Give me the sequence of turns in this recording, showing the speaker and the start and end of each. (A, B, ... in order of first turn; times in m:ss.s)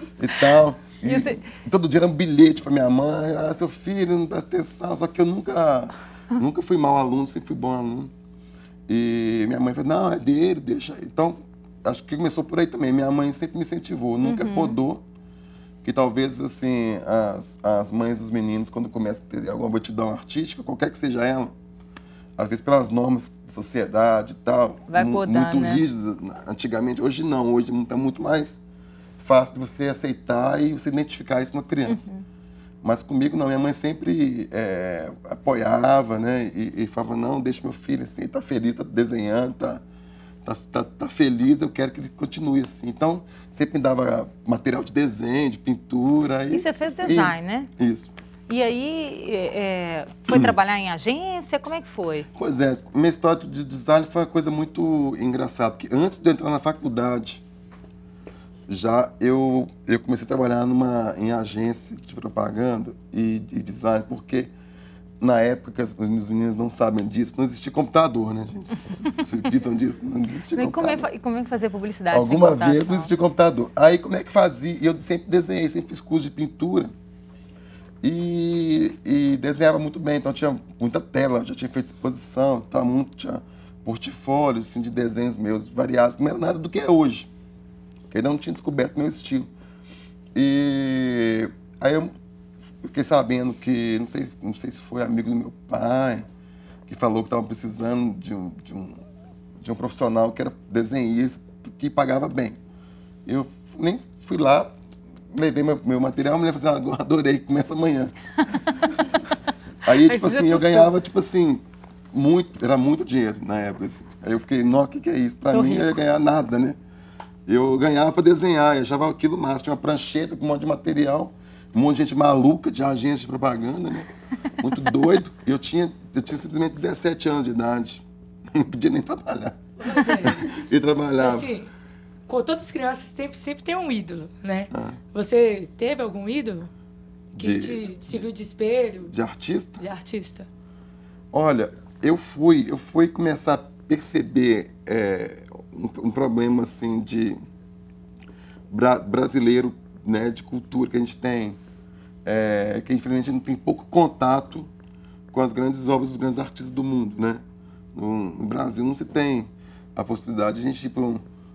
0:00.2-0:08.1 A
0:01.0-0:01.4 B
0:08.9-0:15.0 A
0:14.2-0:14.8 B
0:15.8-0:21.5 A
0:22.4-0:28.6 A
0:24.9-0:25.8 B
0:29.2-0:32.1 A
0:31.8-0:32.2 B
0:32.8-0:39.8 A
0:40.4-0:48.1 A
0:46.5-0:47.7 B
0:48.5-0:52.3 B
0:52.3-0:57.4 A
0:58.7-1:04.5 A
1:05.2-1:11.1 A
1:10.5-1:13.1 B
1:12.1-1:16.9 A
1:18.0-1:27.3 A
1:28.1-1:29.5 A
1:30.3-1:32.1 A
1:32.8-1:36.3 A
1:36.8-1:39.0 A
1:39.6-1:42.6 A
1:43.2-1:44.7 A
1:45.3-1:48.1 A
1:49.8-1:56.8 A
1:50.0-1:50.9 B
1:55.5-1:55.9 B
1:57.5-2:11.5 A
2:09.8-2:10.5 C
2:11.2-2:11.7 C
2:12.3-2:16.7 C
2:14.7-2:15.0 A
2:17.3-2:18.2 A
2:17.4-2:19.1 C
2:19.1-2:19.8 A
2:19.8-2:20.5 C
2:21.3-2:27.4 A
2:28.7-2:31.6 A
2:32.2-2:34.7 A
2:35.3-2:37.4 A
2:37.9-2:41.2 A